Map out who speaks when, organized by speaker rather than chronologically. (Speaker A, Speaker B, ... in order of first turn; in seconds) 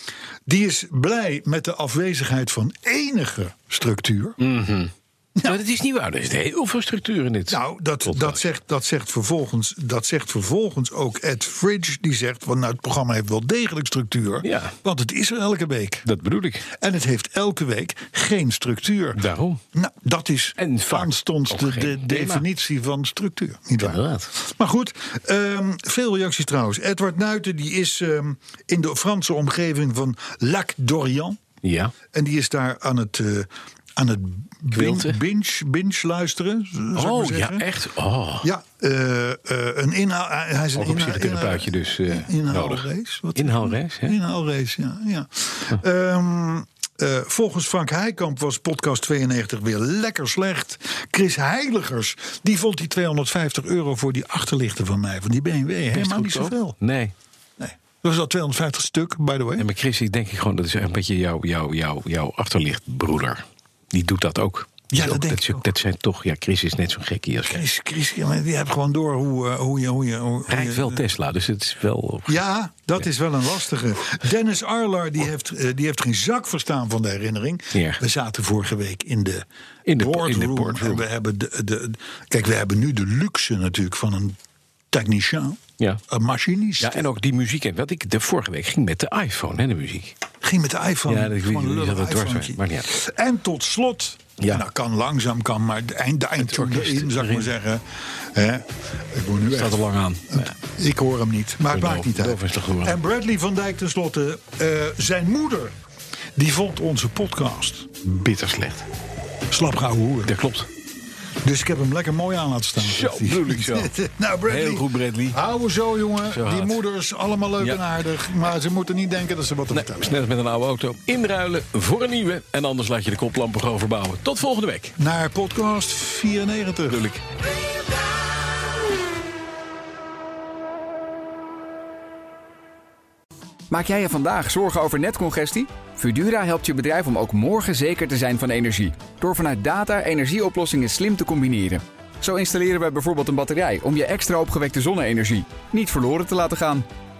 Speaker A: 0.5-4.4, 7.5-16.1, 16.7-31.4, 32.1-37.6, 38.4-56.8, 57.6-59.7, 64.9-65.7, 67.5-71.0, 72.3-84.4, 84.9-87.1, 90.4-105.8, 106.4-108.0, 109.5-110.4, 111.4-120.2, 125.0-127.1
Speaker B: 4.4-8.4, 14.4-14.8, 16.1-16.7, 19.1-19.6, 20.6-22.5, 23.8-24.3, 31.6-31.9, 34.7-35.2, 37.0-38.5, 40.8-44.1, 55.9-57.1, 59.6-67.7, 70.5-72.4, 77.7-78.0, 79.9-81.0, 86.8-90.2, 91.1-92.9, 96.4-97.5, 99.5-100.5, 101.7-103.0, 108.0-108.9, 110.3-110.7, 112.8-113.9, 114.5-115.4, 116.3-116.8, 119.7-125.0, 126.9-127.2
Speaker C: 133.7-146.8